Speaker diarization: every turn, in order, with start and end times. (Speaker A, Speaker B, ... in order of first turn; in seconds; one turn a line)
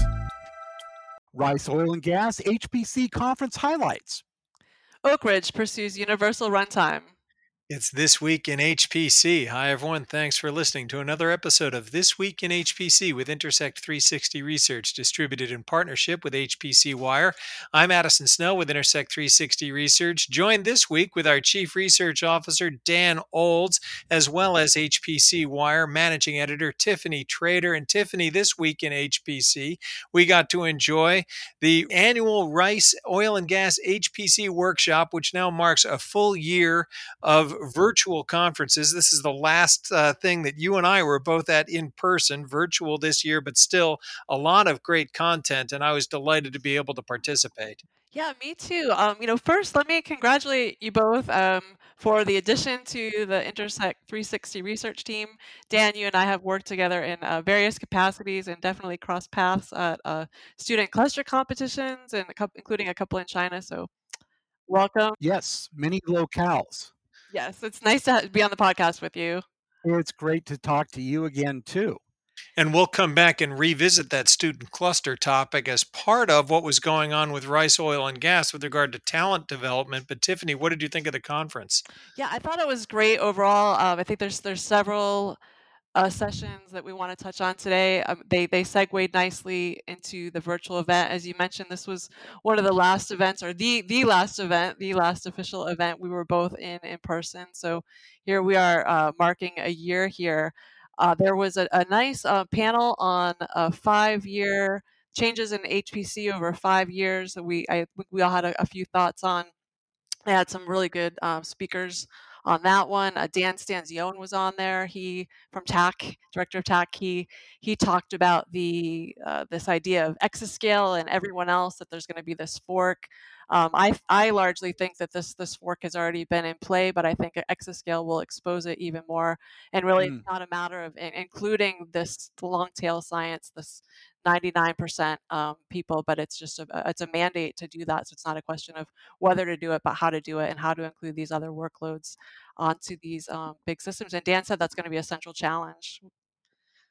Speaker A: 1.3-4.2
Speaker B: 5.0-7.1
Speaker C: 7.7-47.8
Speaker B: 48.1-63.9
Speaker B: 64.7-65.2
Speaker A: 65.2-66.9
Speaker B: 67.3-69.4
Speaker A: 69.8-72.0
Speaker C: 72.6-81.8
Speaker B: 82.2-85.4
Speaker B: 86.0-109.5
Speaker B: 110.3-146.0
Speaker A: 130.0-130.2